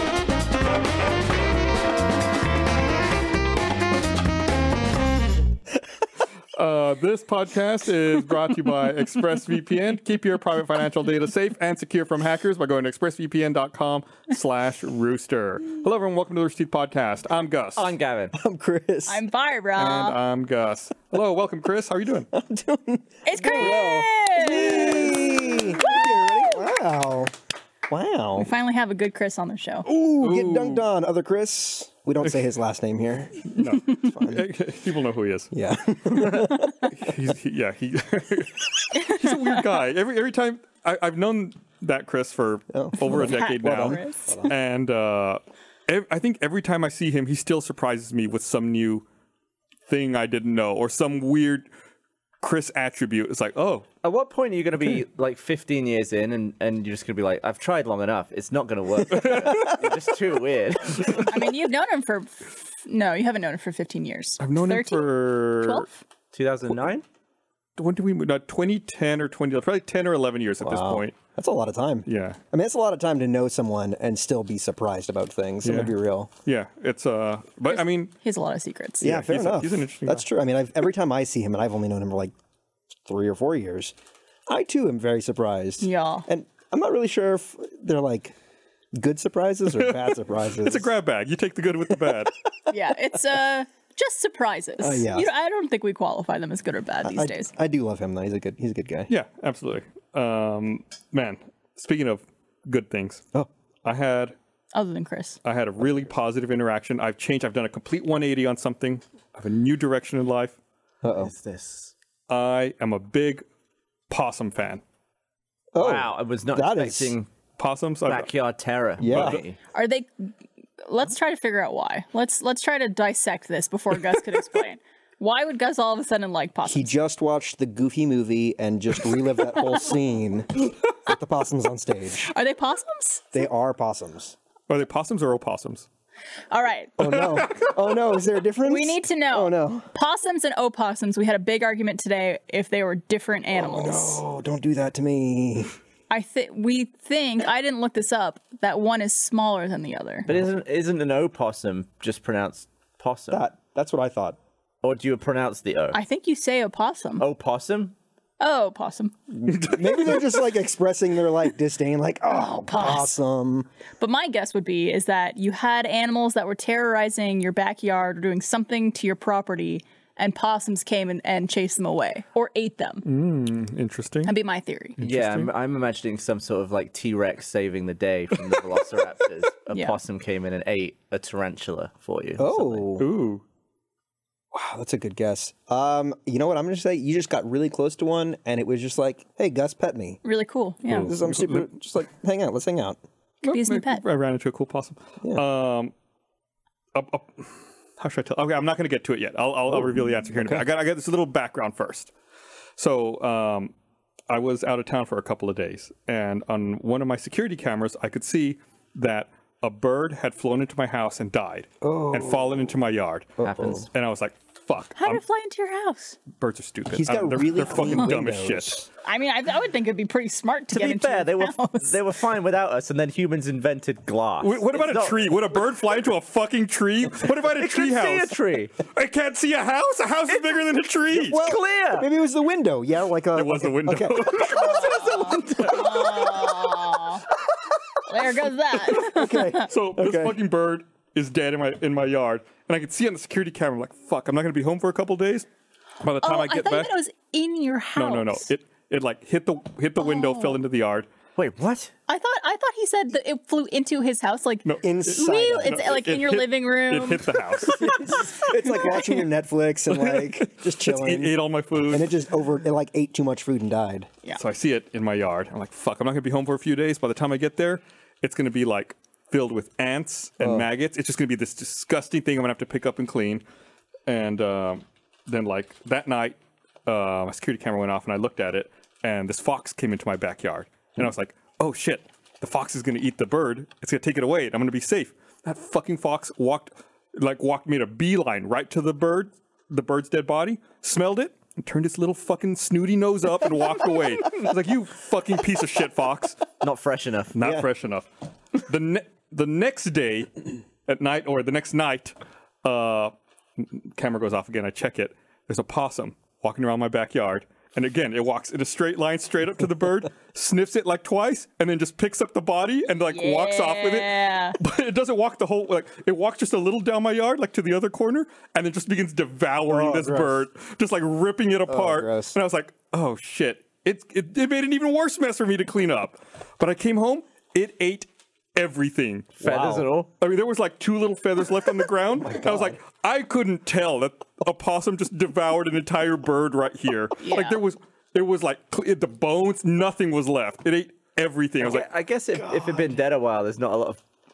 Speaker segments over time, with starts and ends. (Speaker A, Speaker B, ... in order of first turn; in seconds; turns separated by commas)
Speaker A: 6.5-17.9, Speaker B: 17.8-18.3, Speaker C: 18.3-19.2, Speaker D: 19.1-20.2, Speaker A: 19.8-22.3, Speaker C: 22.3-27.3, Speaker D: 23.2-26.0, Speaker C: 27.9-28.5, Speaker D: 28.4-29.9, Speaker C: 29.9-34.5, Speaker A: 30.2-30.8, Speaker A: 33.5-35.5, Speaker C: 35.5-36.7, Speaker A: 36.0-49.0, Speaker D: 39.0-39.6, Speaker C: 42.7-44.6, Speaker D: 43.0-44.5, Speaker A: 49.9-51.7, Speaker A: 52.4-53.9, Speaker B: 54.0-61.3, Speaker A: 59.1-59.8, Speaker D: 61.3-66.0, Speaker A: 64.4-65.8, Speaker B: 66.3-67.0, Speaker A: 67.8-71.2, Speaker C: 70.6-76.3, Speaker A: 72.0-72.4, Speaker A: 75.6-75.9, Speaker A: 76.4-78.1, Speaker D: 77.7-79.1, Speaker C: 79.0-82.3, Speaker A: 79.0-80.2, Speaker C: 83.0-84.0, Speaker C: 84.5-88.3, Speaker D: 85.8-86.3, Speaker C: 89.0-90.9, Speaker A: 90.6-92.3, Speaker C: 91.9-92.2, Speaker D: 92.7-97.5, Speaker C: 94.8-95.3, Speaker C: 97.0-99.1, Speaker A: 99.1-103.3, Speaker A: 103.8-104.3, Speaker D: 104.7-105.4, Speaker A: 105.4-110.6, Speaker C: 111.0-111.3, Speaker B: 111.1-111.9, Speaker A: 112.3-113.4, Speaker A: 114.1-114.8, Speaker C: 115.7-117.1, Speaker B: 115.8-117.3, Speaker A: 117.6-118.3, Speaker B: 118.0-119.6, Speaker C: 119.0-119.4, Speaker A: 119.0-119.4, Speaker D: 119.7-120.3, Speaker D: 120.8-126.9, Speaker C: 126.6-132.3, Speaker D: 132.2-133.4, Speaker C: 133.3-134.3, Speaker A: 134.7-135.9, Speaker D: 136.5-137.0, Speaker C: 137.0-139.9, Speaker A: 137.0-137.7, Speaker D: 138.7-144.2, Speaker C: 143.5-145.7, Speaker D: 146.1-150.3, Speaker B: 150.3-153.5, Speaker C: 153.3-154.4, Speaker B: 154.8-156.0, Speaker D: 155.9-157.2, Speaker B: 157.2-157.9, Speaker D: 158.4-159.2, Speaker C: 159.3-163.7, Speaker A: 159.5-160.3, Speaker D: 162.3-163.2, Speaker D: 164.0-173.0, Speaker A: 173.0-174.3, Speaker D: 174.2-175.0, Speaker A: 175.0-175.5, Speaker B: 175.0-182.8, Speaker D: 179.7-180.0, Speaker C: 182.4-183.1, Speaker A: 183.0-183.4, Speaker C: 184.5-190.2, Speaker D: 190.2-191.1, Speaker A: 190.9-191.7, Speaker C: 191.0-193.0, Speaker D: 193.4-194.0, Speaker A: 193.4-195.9, Speaker A: 196.9-202.1, Speaker C: 199.7-200.6, Speaker A: 202.8-203.7, Speaker A: 204.3-215.2, Speaker C: 211.8-212.7, Speaker C: 213.4-213.8, Speaker B: 213.4-213.8, Speaker D: 214.9-216.2, Speaker A: 216.3-218.8, Speaker C: 216.9-218.9, Speaker D: 219.0-221.9, Speaker B: 220.7-225.3, Speaker A: 224.4-231.5, Speaker B: 227.2-228.7, Speaker C: 231.1-236.2, Speaker B: 231.2-232.1, Speaker A: 233.3-236.5, Speaker D: 234.5-237.2, Speaker D: 238.1-239.7, Speaker C: 238.7-240.4, Speaker A: 239.6-245.5, Speaker A: 246.0-246.9, Speaker D: 246.2-248.5, Speaker A: 247.9-251.1, Speaker D: 250.0-250.6, Speaker B: 251.3-251.9, Speaker D: 252.1-258.3, Speaker A: 254.6-257.9, Speaker C: 254.8-256.0, Speaker C: 257.8-264.1, Speaker A: 259.9-262.1, Speaker A: 264.4-273.4, Speaker C: 270.4-270.7, Speaker A: 274.1-296.4, Speaker B: 296.6-297.4, Speaker A: 297.3-329.7, Speaker C: 297.4-297.7, Speaker D: 313.1-314.6, Speaker C: 319.6-320.4, Speaker C: 321.7-322.4, Speaker B: 329.4-330.1, Speaker C: 329.4-329.9, Speaker A: 330.2-341.9, Speaker C: 332.1-332.8, Speaker D: 337.2-337.6, Speaker B: 341.6-344.0